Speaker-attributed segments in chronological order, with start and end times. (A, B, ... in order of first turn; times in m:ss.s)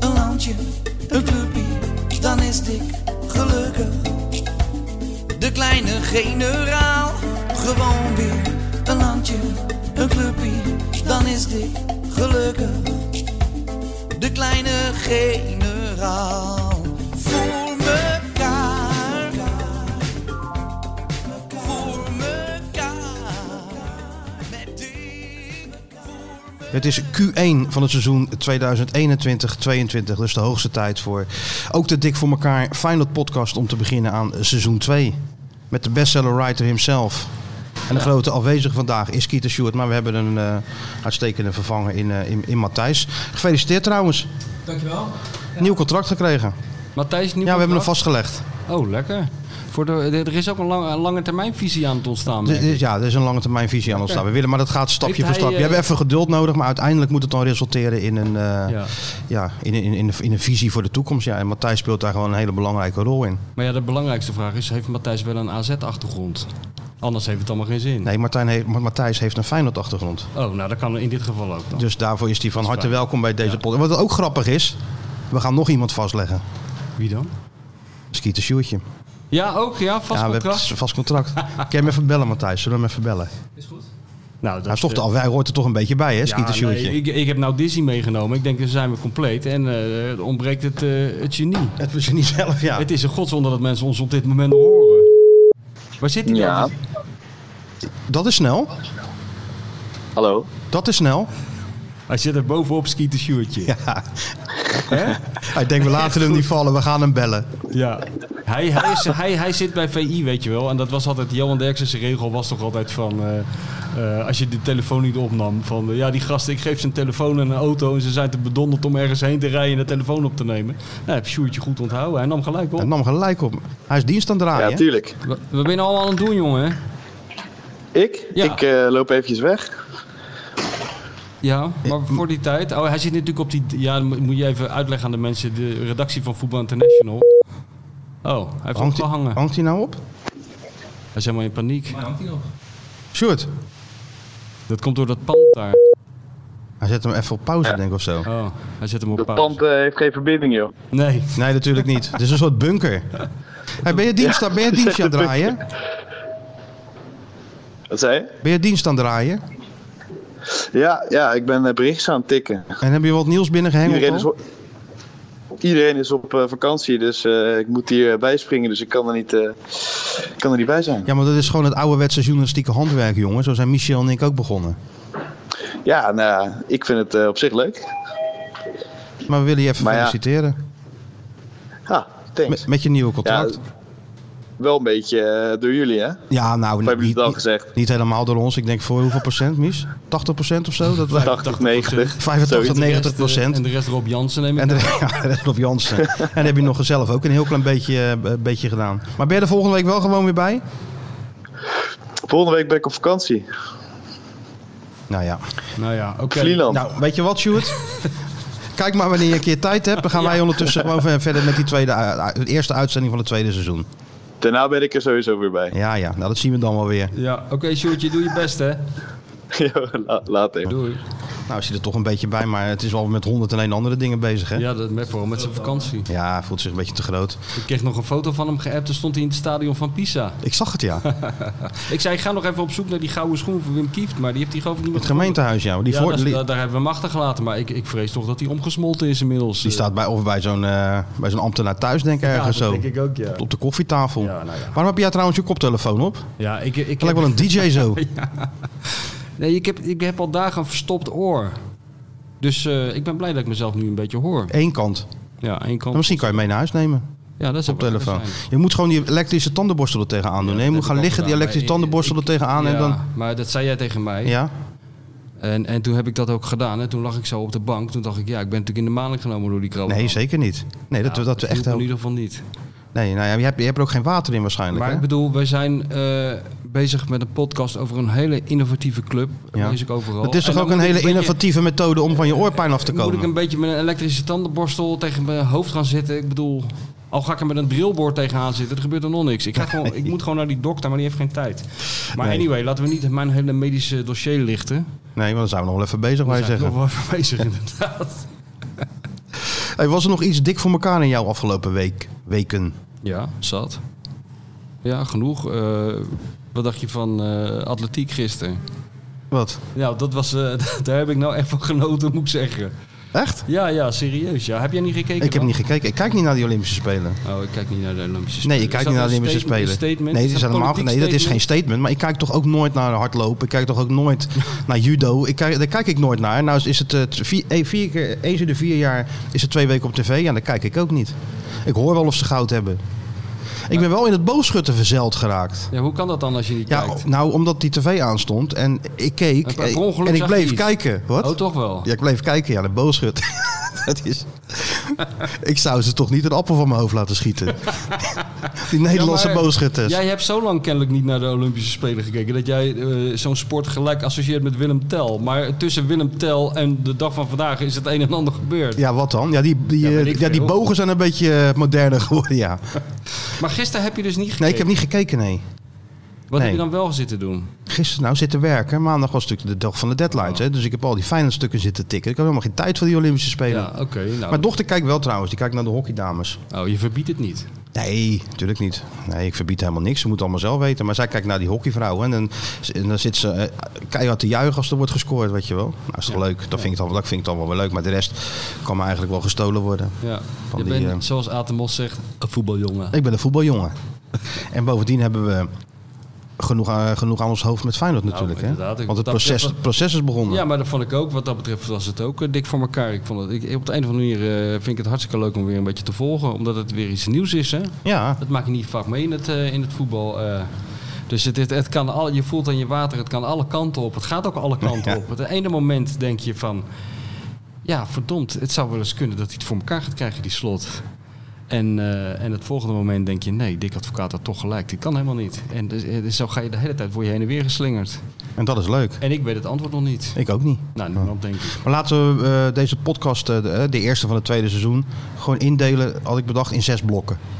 0:00.2-0:00.6 A
0:01.1-0:04.1 A
0:01.2-0:01.7 B
0:05.4-0:09.6 A
0:05.5-0:07.1 B
0:10.1-0:13.0 A
0:14.2-0:19.1 A
0:15.6-0:15.9 B
0:21.8-0:22.0 B
0:21.9-0:23.7 A
0:26.7-0:35.2 C
0:35.7-0:37.3 C
0:37.9-0:44.3 C
0:45.6-0:46.6 C
0:47.0-0:48.0 B
0:47.4-0:48.4 C
0:48.7-0:52.8 B
0:52.4-1:03.4 C
0:55.0-0:55.8 B
0:58.7-0:58.9 B
1:03.6-1:08.1 B
1:08.0-1:10.3 C
1:10.3-1:11.9 B
1:11.8-1:14.8 C
1:12.6-1:13.6 B
1:15.3-1:16.4 C
1:17.0-1:17.3 B
1:18.1-1:18.8 C
1:19.3-1:20.8 B
1:20.1-1:23.3 C
1:24.4-1:25.1 B
1:24.7-1:27.0 C
1:26.2-1:31.8 B
1:31.8-1:32.9 C
1:32.8-1:35.1 B
1:36.0-1:36.7 B
1:36.3-1:36.7 D
1:38.1-1:38.7 C
1:40.2-1:40.5 D
1:40.7-1:41.3 C
1:42.1-1:43.7 B
1:43.6-1:47.5 C
1:44.9-1:46.0 B
1:47.7-2:02.9 B
2:02.8-2:04.8 C
2:04.6-2:05.2 D
2:05.2-2:06.8 B
2:08.0-2:09.8 D
2:11.4-2:17.3 B
2:11.9-2:12.1 C
2:18.2-2:19.4 B
2:18.8-2:20.0 C
2:21.2-2:22.2 B
2:23.1-2:23.5 C
2:24.7-2:25.8 B
2:26.8-2:28.3 C
2:28.2-2:29.6 B
2:29.2-2:30.7 D
2:30.9-2:31.4 B
2:31.4-2:33.1 C
2:33.8-2:35.6 C
2:34.2-2:35.6 D
2:37.9-2:38.3 D
2:38.4-2:39.4 C
2:40.7-2:42.8 D
2:42.8-2:44.3 C
2:43.8-2:44.4 D
2:45.6-2:51.1 D
2:51.1-2:54.8 C
2:55.8-2:57.9 D
2:59.3-3:00.6 C
2:59.8-3:00.2 D
3:01.9-3:02.7 D
3:02.5-3:03.6 C
3:03.2-3:03.5 D
3:04.6-3:06.2 D
3:06.3-3:11.4 C
3:06.8-3:07.7 D
3:11.1-3:15.0 B
3:11.2-3:12.8 D
3:12.2-3:13.6 C
3:14.6-3:20.6 C
3:22.3-3:23.5 D
3:25.1-3:25.4 C
3:25.8-3:26.7 B
3:26.4-3:26.8 D
3:26.7-3:27.8 C
3:28.8-3:33.9 C
3:30.1-3:30.4 B
3:34.4-3:35.7 D
3:35.7-3:37.1 C
3:37.1-3:38.8 B
3:39.5-3:40.7 D
3:40.7-3:41.0 B
3:41.5-3:44.7 C
3:44.6-3:46.1 B
3:46.1-3:47.4 C
3:47.6-3:50.4 B
3:50.4-3:51.0 C
3:51.0-3:59.8 B
3:54.9-3:56.4 C
3:59.6-4:06.3 C
4:02.2-4:03.4 B
4:04.2-4:04.8 B
4:06.4-4:11.6 B
4:07.0-4:08.0 C
4:12.4-4:14.5 B
4:14.5-4:15.1 C
4:15.4-4:16.4 B
4:15.9-4:17.0 C
4:17.4-4:18.4 B
4:17.7-4:23.0 C
4:20.4-4:24.4 B
4:24.2-4:24.5 C
4:25.4-4:30.2 B
4:29.9-4:31.9 C
4:31.0-4:32.4 B
4:32.9-4:35.0 C
4:34.7-4:41.4 B
4:39.6-4:43.3 C
4:42.7-4:54.9 B
4:52.2-4:52.4 C
4:55.2-4:56.8 C
4:56.3-4:58.3 B
4:59.4-5:02.8 C
5:03.0-5:03.8 B
5:04.8-5:08.6 B
5:09.3-5:09.6 C
5:09.8-5:12.7 B
5:13.1-5:13.4 C
5:13.5-5:15.5 B
5:15.2-5:17.2 C
5:17.2-5:21.4 B
5:18.4-5:32.8 C
5:33.7-5:35.7 C
5:35.7-5:37.1 B
5:36.7-5:47.9 C
5:39.4-5:41.9 B
5:47.9-5:58.8 B
5:48.6-5:50.0 C
5:58.8-6:02.7 C
5:59.8-6:00.6 B
6:03.3-6:04.7 B
6:04.4-6:05.4 C
6:06.3-6:07.5 B
6:06.4-6:06.6 C
6:07.7-6:13.7 C
6:10.2-6:10.4 B
6:13.5-6:14.5 B
6:14.3-6:16.4 C
6:16.5-6:17.5 B
6:17.7-6:30.0 C
6:26.1-6:26.7 B
6:30.0-6:33.0 B
6:30.5-6:31.0 C
6:32.9-6:33.8 C
6:34.5-6:35.5 C
6:36.4-6:40.4 C
6:38.1-6:39.6 B
6:40.3-6:50.5 B
6:47.8-6:48.2 C
6:51.1-6:56.7 B
6:57.6-7:00.8 B
7:01.5-7:08.0 B
7:08.4-7:09.0 C
7:09.0-7:10.2 B
7:10.2-7:17.2 C
7:10.8-7:11.6 B